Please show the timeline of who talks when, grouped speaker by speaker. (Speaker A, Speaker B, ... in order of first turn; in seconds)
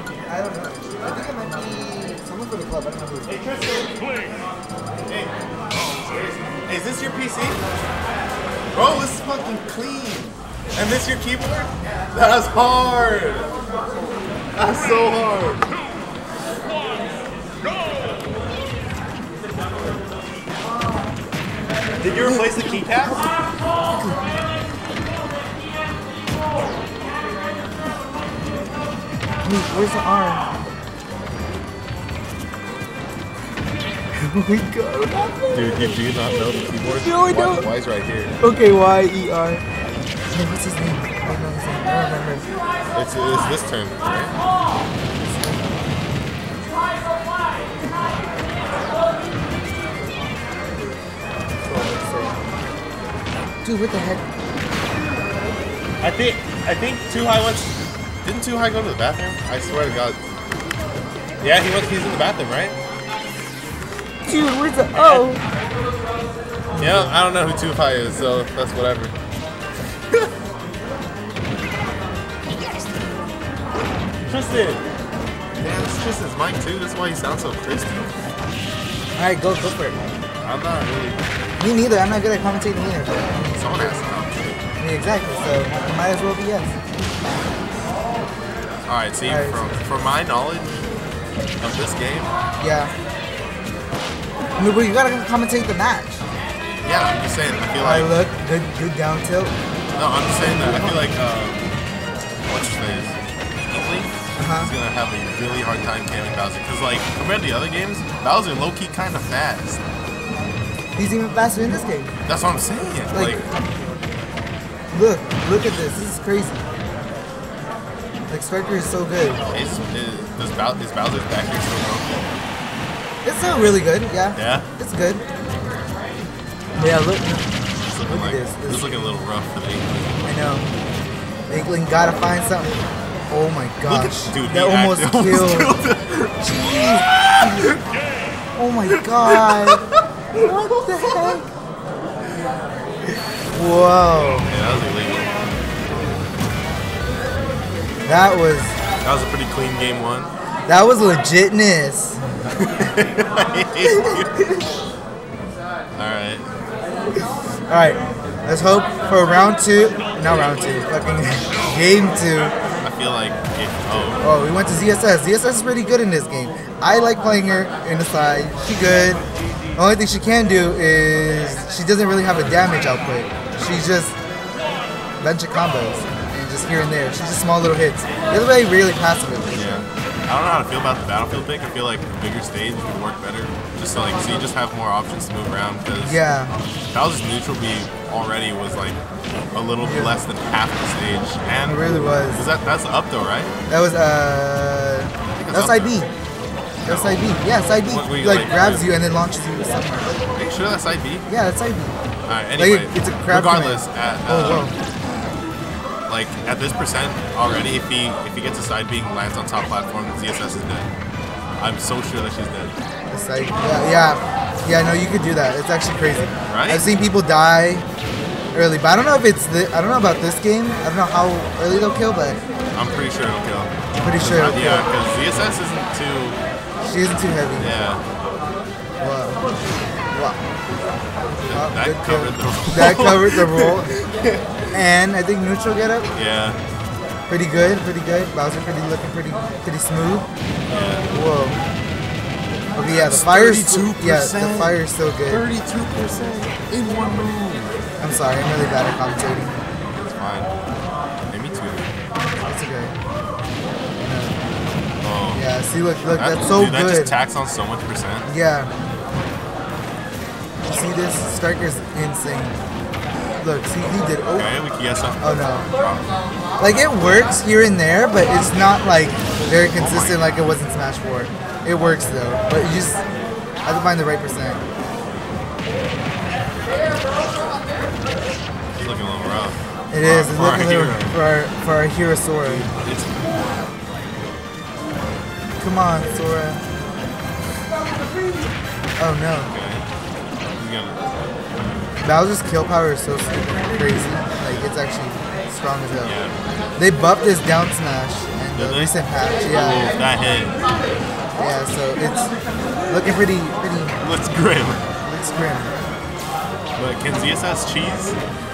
Speaker A: 0.2-3.5, 23.9-24.2, 29.4-30.5, 34.2-37.7, 38.4-39.6, 40.3-42.5, 45.3-45.5, 51.6-52.4, 53.6-54.2, 64.3-65.4, 66.7-67.2, 79.2-80.0, 81.6-84.1, 84.8-86.8, 89.3-89.7, 92.6-92.9, 94.6-96.2, 97.8-99.5, 100.4-101.0, 104.4-104.7, 111.0-112.1, 113.1-113.5, 114.9-116.6, 118.3-119.4, 123.2-125.2, 126.8-127.5, 128.1-129.2, 130.2-130.7, 131.5-132.8, 133.3-135.7, 136.4-137.8, 138.6-139.8, 140.4-141.4, 143.5-144.5, 148.0-148.8, 150.7-152.2, 153.8-154.4, 157.7-162.6, 164.2-169.2, 169.8-174.2, 175.2-179.7, 186.0-186.5, 189.8-190.2, 191.7-192.4, 193.7-196.1, 196.8-200.2, 201.3-201.9, 202.6-204.7, 213.1-217.8, 218.5-222.4, 224.0-224.9, 226.8-227.7, 229.0-229.4, 230.1-230.4, 231.4-233.9, 234.7-236.1, 237.3-240.3, 241.1-241.6, 242.7-245.4, 248.0-249.6, 252.4-252.9, 254.0-254.3, 255.3-257.1, 258.2-258.7, 260.7-262.6, 263.4-264.5, 265.2-265.6, 266.6-273.0, 273.6-274.6, 279.9-282.7, 285.6-286.6, 289.0-289.5, 292.0-296.1, 296.8-299.9, 301.4-302.3, 302.9-304.0, 305.0-305.7
Speaker B: 3.3-4.1, 5.1-5.3, 6.7-7.7, 8.7-13.5, 14.5-15.7, 22.0-23.3, 35.5-38.4, 42.9-44.4, 56.0-60.2, 61.4-62.8, 65.0-65.3, 66.8-69.1, 74.2-74.8, 75.6-78.1, 80.4-81.2, 83.6-84.6, 88.9-90.8, 91.6-92.3, 96.8-98.1, 100.0-101.7, 102.5-103.2, 103.7-109.8, 112.3-113.4, 119.5-122.3, 124.3-124.7, 127.9-129.8, 133.8-137.7, 139.1-141.4, 144.5-145.3, 149.0-150.3, 152.6-154.3, 155.9-156.5, 162.8-164.2, 179.5-186.2, 186.9-189.0, 189.5-193.5, 195.4-195.9, 196.8-198.9, 200.3-201.2, 202.3-204.7, 206.1-210.9, 211.6-212.7, 216.5-216.8, 222.7-226.4, 227.6-228.0, 231.4-234.4, 236.1-236.6, 240.7-241.1, 242.7-247.8, 249.9-250.5, 251.3-251.9, 255.0-255.4, 256.1-258.3, 264.3-266.9, 269.8-270.2, 276.7-277.4, 278.8-281.1, 282.4-283.6, 289.4-289.8, 290.6-291.0, 296.0-296.3, 298.6-300.6, 304.0-304.8, 306.8-308.1